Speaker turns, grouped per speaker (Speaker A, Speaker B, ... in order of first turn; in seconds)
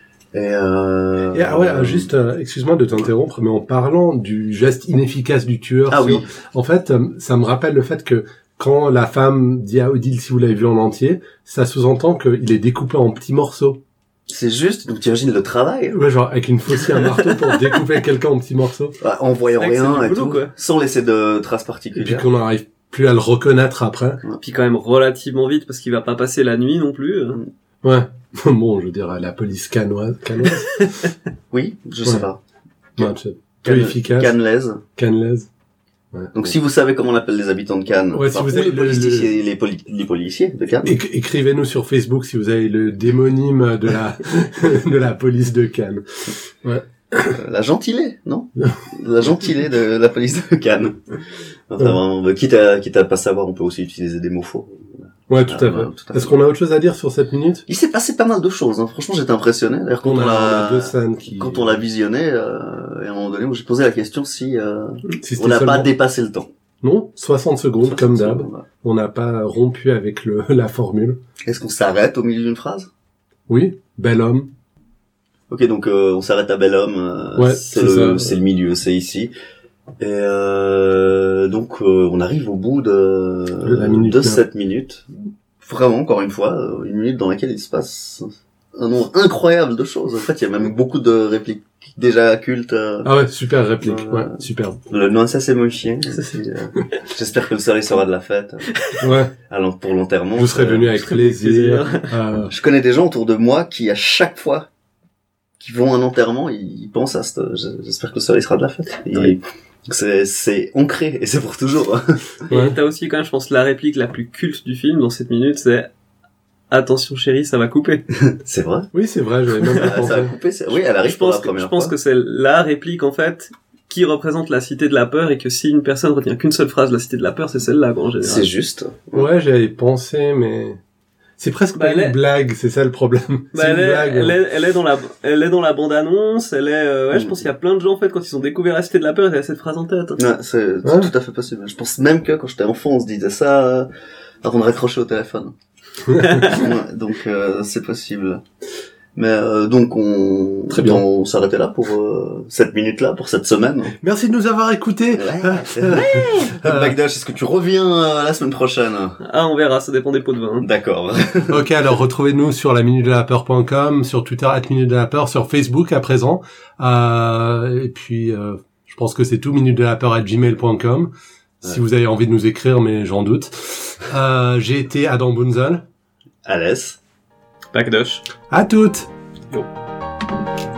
Speaker A: 0.3-2.1, 5.9-6.3, 14.3-16.0, 19.0-22.3, 31.5-32.4, 33.6-34.8, 36.3-41.0, 47.3-56.4, 57.7-66.5, 67.8-68.7, 71.5-72.9, 75.5-79.3, 80.0-93.1, 93.8-98.7, 99.4-101.0, 102.5-104.7, 105.6-112.3, 118.2-118.9, 119.7-121.9, 128.2-129.3, 137.1-137.4, 140.2-143.9, 144.4-145.5, 146.4-148.4, 149.2-153.9, 155.1-159.2, 160.6-161.7, 176.5-177.0
Speaker B: 1.3-13.8, 15.9-19.0, 22.0-24.2, 27.8-30.9, 33.0-34.4, 35.0-35.5, 38.1-39.3, 40.9-47.4, 55.3-57.6, 60.0-61.8, 65.2-65.9, 66.8-71.2, 73.5-74.5, 77.4-78.3, 83.6-84.4, 93.0-94.8, 99.0-99.3, 100.4-102.5, 112.5-112.8, 118.9-120.3, 129.1-130.8, 131.4-134.4, 140.8-141.1, 146.1-146.6, 150.7-151.0, 154.0-156.9, 161.5-171.1, 171.6-175.8, 178.5-179.1
Speaker C: 16.9-17.8, 19.6-20.5, 24.4-27.4, 98.7-99.0, 101.0-102.1, 112.5-115.9, 116.7-118.0, 119.7-120.0, 121.0-128.5, 131.8-132.2, 133.6-140.2, 146.2-146.6, 159.2-160.7, 177.7-178.2